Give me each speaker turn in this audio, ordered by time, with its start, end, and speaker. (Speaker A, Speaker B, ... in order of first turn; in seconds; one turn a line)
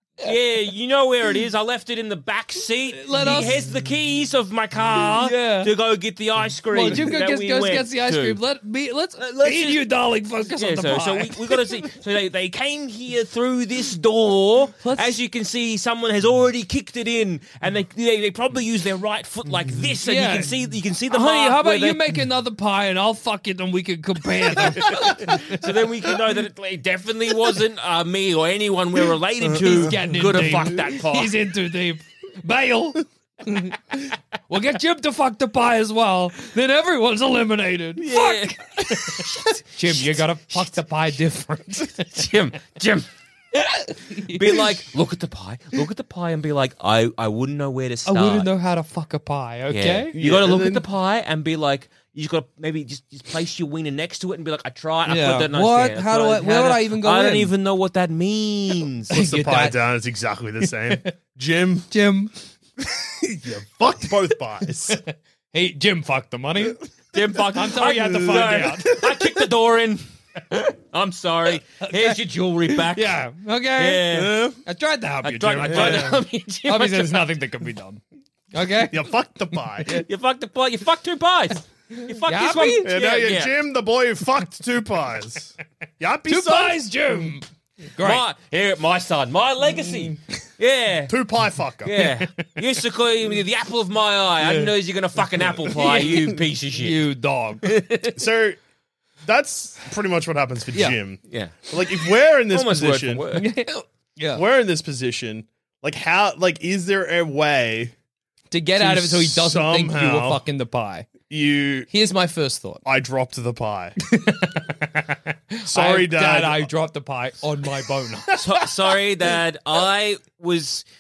Speaker A: 0.2-8.4
Speaker B: 2.9-3.6
Speaker B: 4.9-5.7
Speaker B: 6.7-11.9
Speaker A: 9.2-9.8
Speaker A: 10.5-22.2
Speaker B: 14.8-15.1
Speaker B: 20.0-20.6
Speaker B: 21.1-25.7
Speaker A: 24.7-31.4
Speaker B: 29.5-42.3
Speaker A: 38.0-40.2
Speaker A: 42.1-43.1
Speaker B: 43.5-44.8
Speaker A: 44.3-48.5
Speaker B: 48.1-50.1
Speaker A: 49.7-59.1
Speaker C: 50.1-50.9
Speaker B: 55.1-57.5
Speaker B: 59.1-59.8
Speaker C: 59.1-61.9
Speaker B: 60.9-61.1
Speaker B: 61.9-62.3
Speaker C: 63.3-65.0
Speaker B: 64.9-66.8
Speaker A: 67.1-73.2
Speaker B: 67.5-69.4
Speaker B: 71.8-72.2
Speaker B: 72.7-74.1
Speaker A: 73.8-74.4
Speaker C: 74.1-74.6
Speaker B: 74.6-78.0
Speaker A: 75.2-77.3
Speaker C: 75.6-76.2
Speaker B: 78.5-80.1
Speaker C: 78.9-80.0
Speaker A: 80.0-83.5
Speaker B: 82.2-82.9
Speaker C: 82.8-86.9
Speaker B: 86.3-88.2
Speaker A: 88.0-91.2
Speaker C: 91.1-92.0
Speaker A: 91.8-97.0
Speaker B: 92.0-92.6
Speaker B: 95.7-96.1
Speaker C: 95.8-96.2
Speaker B: 96.7-97.7
Speaker A: 97.6-98.2
Speaker C: 98.1-98.6
Speaker C: 99.2-103.2
Speaker A: 101.3-101.8
Speaker A: 102.5-103.5
Speaker B: 103.3-104.4
Speaker C: 104.3-107.9
Speaker B: 108.5-111.1
Speaker C: 108.8-110.4
Speaker C: 111.3-111.9
Speaker B: 111.9-112.8
Speaker C: 112.8-114.0
Speaker B: 114.0-118.5
Speaker C: 115.7-116.7
Speaker A: 118.4-120.8